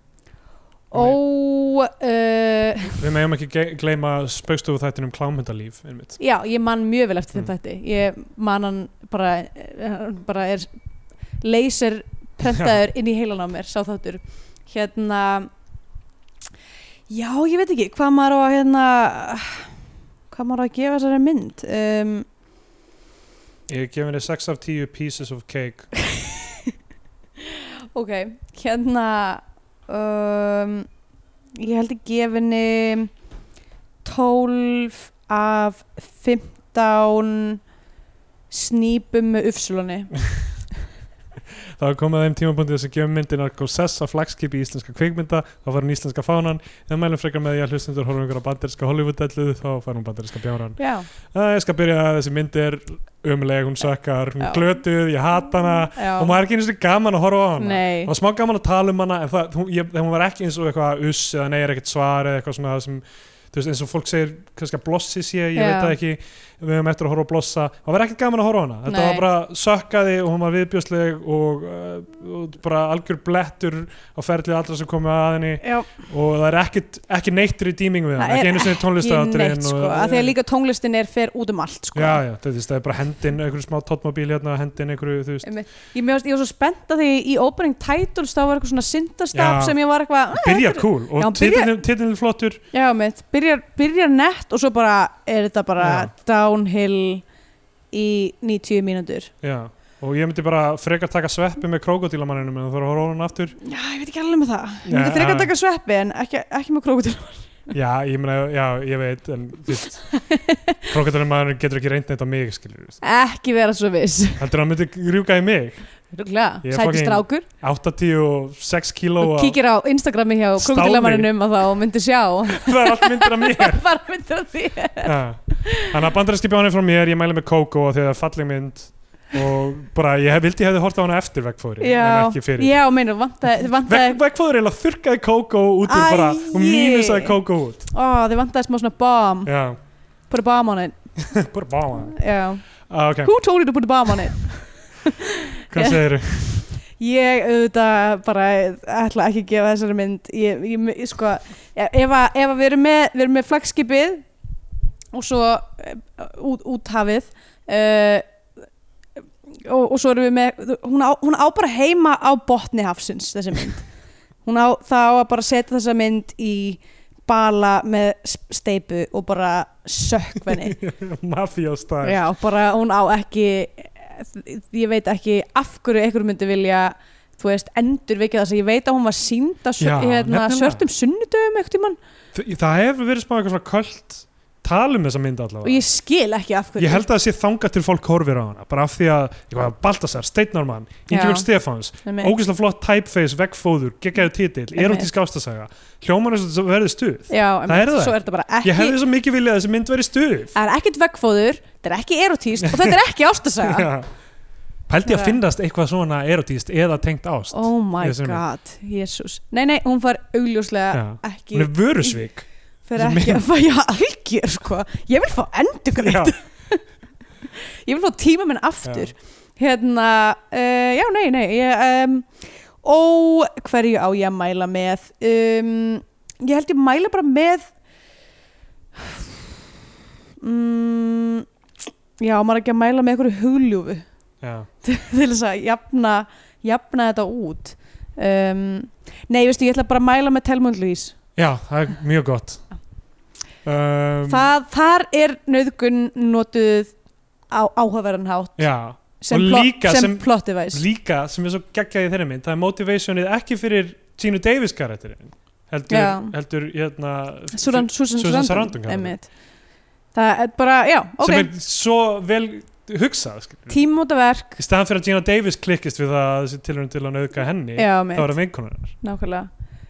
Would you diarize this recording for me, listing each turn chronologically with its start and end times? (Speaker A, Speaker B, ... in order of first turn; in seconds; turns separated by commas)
Speaker A: 0.9-3.0, Speaker B: 0.9-1.2, Speaker B: 3.0-6.2, Speaker A: 6.2-10.7, Speaker A: 11.4-15.5, Speaker A: 17.1-19.7, Speaker A: 20.3-22.2, Speaker B: 23.7-25.9, Speaker A: 26.2-26.7, Speaker A: 27.4-30.9, Speaker A: 31.6-33.1, Speaker A: 34.0-37.6, Speaker A: 38.5-40.1, Speaker B: 41.8-80.3, Speaker A: 50.8-51.1, Speaker A: 54.4-54.7, Speaker A: 55.9-56.3, Speaker A: 57.6-58.1, Speaker A: 65.5-65.9, Speaker A: 68.9-69.2, Speaker A: 75.6-75.9, Speaker A: 78.2-82.2, Speaker B: 81.9-85.5, Speaker A: 85.4-91.7, Speaker B: 89.3-89.8, Speaker B: 90.3-92.6, Speaker A: 92.7-97.2, Speaker B: 95.8-96.1, Speaker A: 97.9-99.3, Speaker B: 99.4-103.6, Speaker A: 103.6-107.6, Speaker B: 104.9-105.5, Speaker B: 107.7-110.1, Speaker A: 110.1-110.9, Speaker B: 110.9-113.0, Speaker A: 113.0-114.4, Speaker B: 114.4-115.9, Speaker A: 116.1-117.5, Speaker B: 116.6-119.5, Speaker A: 119.2-125.9, Speaker B: 120.6-121.3, Speaker B: 122.5-123.8, Speaker B: 125.0-132.7, Speaker A: 131.8-134.2, Speaker B: 133.5-137.9, Speaker A: 135.8-137.4, Speaker A: 137.9-139.5, Speaker B: 139.4-139.8, Speaker A: 140.3-140.9, Speaker B: 141.2-142.2, Speaker A: 142.0-142.7, Speaker B: 142.9-143.3, Speaker A: 143.2-146.0, Speaker B: 145.7-146.7, Speaker A: 147.0-154.2, Speaker A: 155.1-158.2, Speaker A: 159.6-163.8, Speaker A: 164.4-170.8, Speaker B: 170.5-172.2, Speaker A: 172.0-182.0, Speaker B: 179.8-180.8, Speaker B: 182.3-185.8, Speaker A: 185.6-187.0, Speaker B: 186.8-200.6, Speaker A: 191.1-191.5, Speaker A: 192.0-192.3, Speaker A: 194.7-195.1, Speaker A: 197.3-199.0, Speaker A: 200.5-203.9, Speaker B: 202.6-203.0, Speaker B: 203.6-204.1, Speaker B: 204.9-208.4, Speaker A: 205.0-205.4, Speaker A: 207.5-212.2, Speaker B: 210.9-213.4, Speaker A: 212.8-216.8, Speaker B: 216.0-216.3, Speaker A: 217.5-227.7, Speaker B: 218.8-219.1, Speaker A: 229.0-229.3, Speaker A: 230.4-231.4, Speaker A: 232.2-234.1, Speaker B: 234.4-234.7, Speaker A: 234.8-241.1, Speaker B: 241.3-242.6, Speaker B: 243.6-244.5, Speaker A: 244.3-246.9, Speaker A: 247.5-248.6, Speaker B: 248.6-259.1, Speaker A: 249.2-250.8, Speaker A: 255.9-256.3, Speaker A: 257.5-259.3, Speaker A: 260.1-261.5, Speaker B: 261.2-263.8, Speaker A: 263.7-264.6, Speaker B: 264.6-268.9, Speaker A: 267.8-268.3, Speaker A: 269.0-269.5